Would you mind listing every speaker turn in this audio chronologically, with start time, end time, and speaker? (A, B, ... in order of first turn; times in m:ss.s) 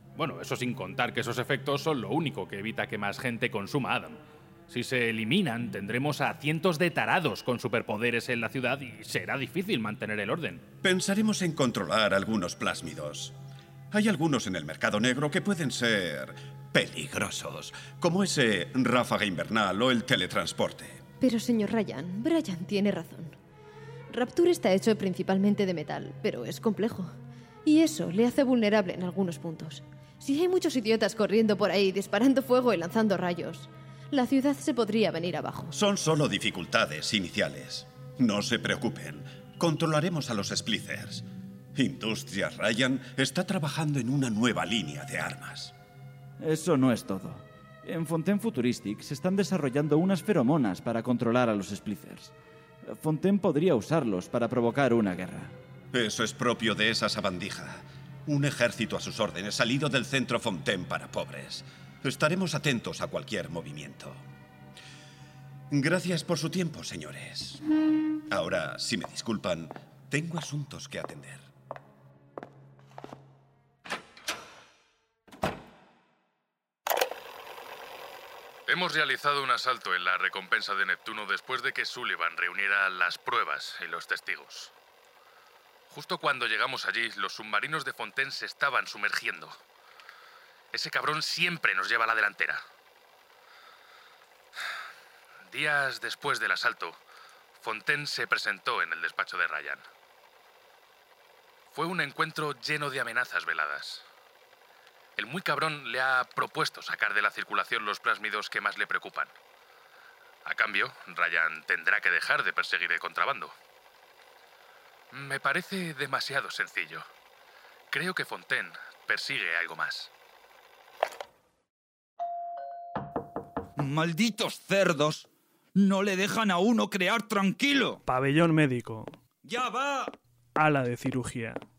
0:00.2-0:10.6 A
0:10.8-0:13.4 B
0:13.9-0:21.0 B
0:21.2-0:23.3 C
0:24.1-0:27.1 C
0:27.6-0:35.7 C
0:35.7-0:45.7 B
0:46.4-0:52.3 D
0:52.9-0:55.5 D
0:55.9-1:04.2 B
1:05.7-1:07.6 B
1:08.3-1:11.4 B
1:18.7-1:24.7 A
1:25.9-1:29.5 A
1:30.7-1:32.6 A
1:35.5-1:37.0 A
1:37.6-1:39.8 A
1:41.7-1:44.0 A
1:45.2-1:49.3 A
1:50.4-1:53.5 A
1:55.1-1:57.0 A
1:57.9-2:00.1 A
2:03.8-2:08.0 E
2:08.0-2:09.2 F
2:09.4-2:10.1 E
2:10.6-2:11.6 F